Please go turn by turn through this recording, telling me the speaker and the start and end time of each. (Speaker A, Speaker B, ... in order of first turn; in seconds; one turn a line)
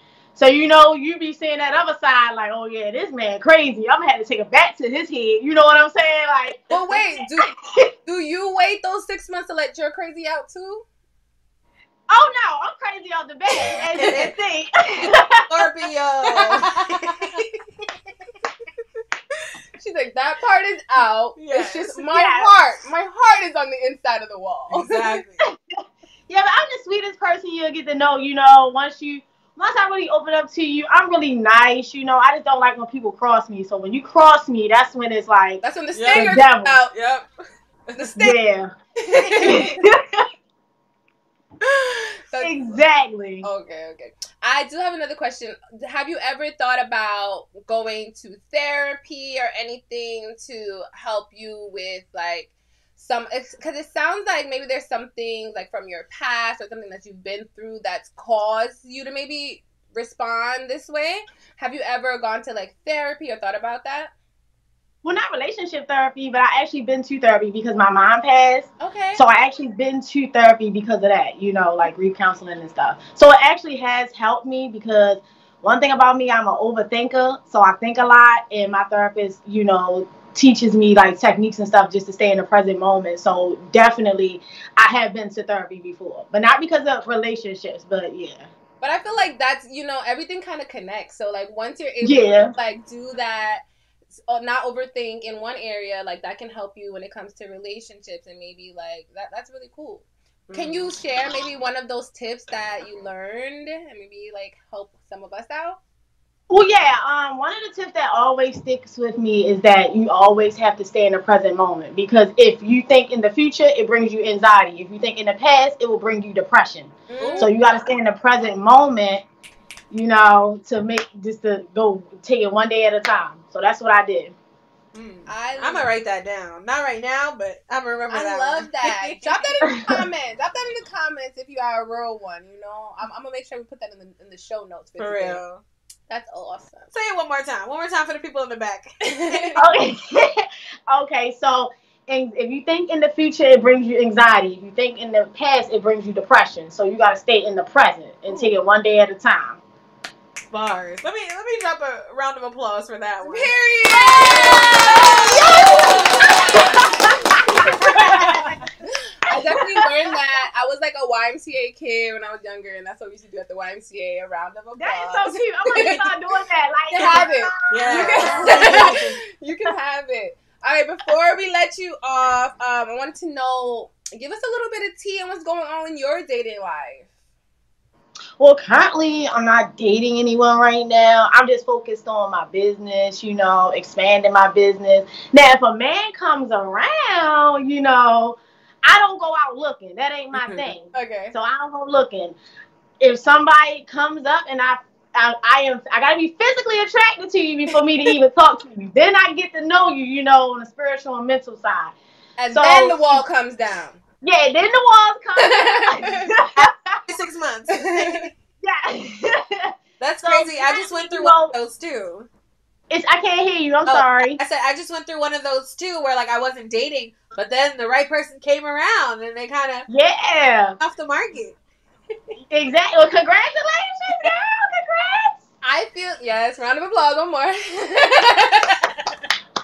Speaker A: 0.3-7.9
Speaker B: 6.7-7.5
Speaker B: 8.0-10.8
Speaker A: 12.1-15.5
Speaker C: 13.7-14.3
Speaker C: 15.5-17.4
Speaker B: 16.4-16.7
Speaker B: 19.8-25.2
Speaker C: 21.4-22.0
Speaker A: 22.1-22.5
Speaker C: 24.7-25.4
Speaker A: 26.3-36.8
Speaker B: 35.6-36.9
Speaker C: 35.9-37.3
Speaker C: 37.9-38.2
Speaker B: 38.0-38.4
Speaker A: 38.1-38.7
Speaker B: 39.0-39.8
Speaker C: 39.2-39.7
Speaker A: 39.3-40.2
Speaker B: 41.6-42.6
Speaker A: 42.4-43.5
Speaker B: 43.4-64.1
Speaker A: 65.0-88.5
Speaker B: 68.8-69.2
Speaker B: 88.8-93.6
Speaker A: 92.0-92.5
Speaker B: 94.3-105.8
Speaker C: 100.5-100.9
Speaker A: 106.5-119.2
Speaker B: 117.1-117.5
Speaker C: 117.2-117.5
Speaker A: 119.9-124.3
Speaker C: 124.9-129.5
Speaker B: 125.3-125.9
Speaker B: 128.1-135.4
Speaker A: 129.7-130.0
Speaker C: 135.0-135.6
Speaker B: 136.1-136.9
Speaker C: 136.9-139.6
Speaker B: 139.1-139.6
Speaker A: 139.6-149.6
Speaker C: 150.5-153.5
Speaker B: 153.2-156.9
Speaker C: 154.2-156.1
Speaker A: 155.3-158.5
Speaker B: 157.4-166.0
Speaker C: 157.9-158.5
Speaker A: 159.3-159.9
Speaker A: 164.8-169.0
Speaker C: 165.7-166.1
Speaker B: 166.9-177.1
Speaker C: 167.0-169.2
Speaker A: 178.4-192.4
Speaker C: 190.3-190.7
Speaker B: 190.9-191.3
Speaker A: 193.0-201.9
Speaker B: 202.4-204.0
Speaker A: 202.5-203.2
Speaker A: 204.2-207.0
Speaker B: 205.3-206.3
Speaker C: 206.6-208.3
Speaker B: 207.7-208.3
Speaker A: 208.6-211.5
Speaker C: 210.0-212.3
Speaker A: 212.9-214.4
Speaker C: 213.8-219.9
Speaker A: 219.9-220.8
Speaker C: 220.8-221.6
Speaker A: 222.5-225.4
Speaker B: 225.6-228.9